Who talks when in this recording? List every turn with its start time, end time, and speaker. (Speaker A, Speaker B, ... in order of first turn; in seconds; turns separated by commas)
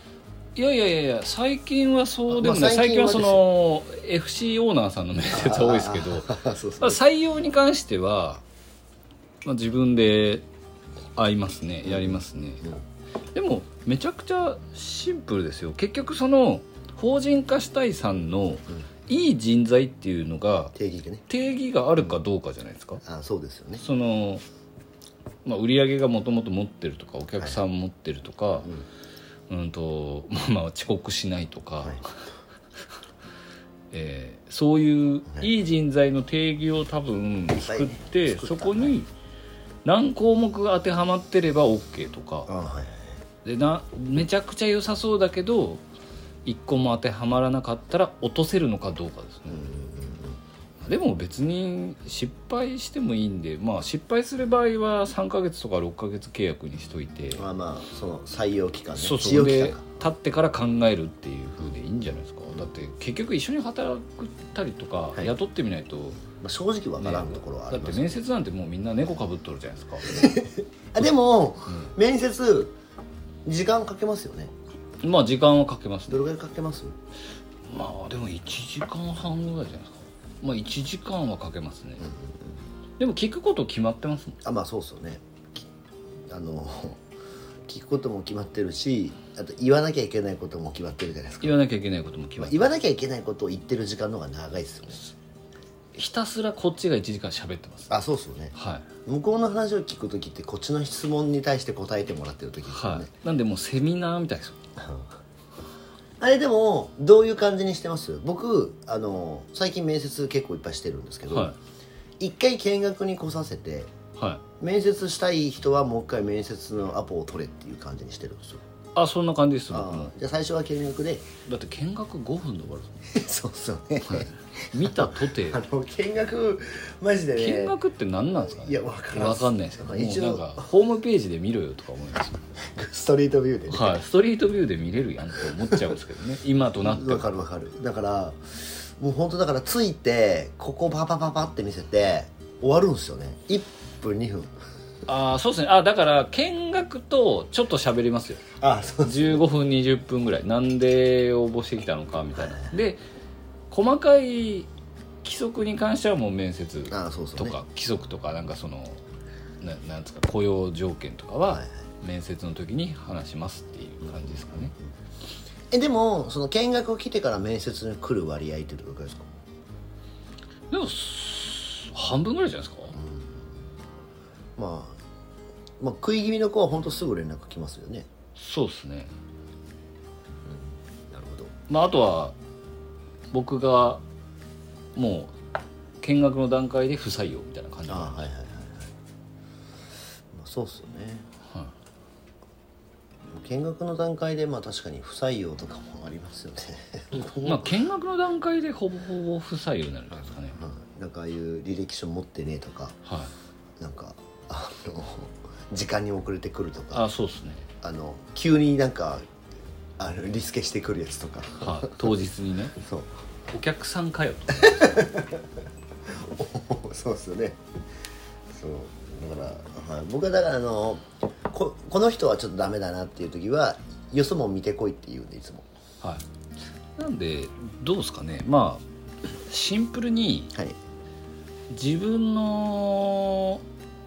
Speaker A: 0.5-8.4, Speaker B: 2.3-3.4, Speaker B: 5.3-7.0, Speaker A: 9.4-10.4, Speaker A: 11.2-12.6, Speaker B: 11.8-12.8, Speaker A: 13.3-20.7, Speaker B: 20.8-21.2, Speaker A: 21.3-23.0, Speaker B: 23.0-23.9, Speaker A: 23.8-24.4, Speaker A: 25.4-28.7, Speaker A: 29.5-32.2, Speaker A: 33.9-39.1, Speaker B: 37.6-39.0, Speaker A: 39.9-42.5, Speaker B: 42.5-43.2, Speaker A: 43.4-45.8, Speaker A: 46.4-49.6, Speaker B: 49.5-50.4, Speaker A: 50.8-57.4, Speaker B: 57.3-60.0, Speaker A: 58.9-66.2, Speaker B: 66.4-68.2, Speaker A: 67.0-70.3, Speaker B: 70.1-72.8, Speaker B: 73.5-74.5, Speaker A: 75.0-76.2, Speaker B: 76.1-77.0, Speaker A: 77.7-82.0, Speaker B: 82.0-82.5, Speaker A: 83.0-84.4, Speaker B: 84.4-85.6, Speaker B: 86.2-87.0, Speaker B: 87.7-91.6, Speaker A: 91.4-92.7, Speaker B: 92.4-95.1, Speaker A: 95.9-97.9, Speaker B: 97.9-103.1, Speaker A: 98.5-98.9, Speaker A: 102.7-104.6, Speaker B: 104.8-105.1, Speaker B: 106.2-111.5, Speaker A: 111.3-111.6, Speaker B: 112.2-113.9, Speaker A: 114.2-114.4, Speaker B: 114.6-118.6, Speaker A: 118.9-120.1, Speaker B: 119.7-121.3, Speaker A: 121.5-123.0, Speaker B: 123.1-127.8, Speaker A: 124.0-125.6, Speaker A: 127.4-132.6, Speaker B: 128.5-130.7, Speaker B: 132.6-134.0, Speaker A: 133.7-137.3, Speaker B: 135.6-135.9, Speaker B: 136.8-144.5, Speaker A: 145.1-148.4, Speaker B: 148.6-149.4, Speaker A: 149.0-153.0, Speaker B: 152.4-152.7, Speaker A: 153.7-154.7, Speaker A: 155.2-159.0, Speaker B: 156.9-157.6, Speaker A: 159.6-164.7, Speaker B: 161.5-161.8, Speaker B: 164.0-164.9, Speaker B: 165.7-169.3, Speaker A: 170.7-172.9, Speaker B: 172.9-173.5, Speaker B: 174.6-175.0, Speaker B: 175.8-178.1, Speaker A: 178.4-179.1, Speaker B: 180.4-181.5, Speaker A: 181.7-182.4, Speaker A: 183.3-184.0, Speaker A: 184.9-185.3, Speaker A: 186.0-188.3, Speaker B: 187.9-188.9, Speaker B: 190.3-191.2, Speaker B: 193.3-197.8, Speaker A: 197.4-200.6, Speaker B: 200.1-203.0, Speaker A: 203.1-203.3, Speaker B: 203.8-207.1, Speaker A: 206.9-207.7, Speaker B: 207.8-209.2, Speaker B: 210.0-212.0, Speaker A: 211.6-212.8, Speaker B: 212.8-213.2, Speaker A: 213.5-215.1, Speaker B: 214.5-215.4, Speaker B: 216.1-217.6, Speaker B: 218.5-225.7, Speaker A: 227.0-230.5, Speaker A: 231.7-233.6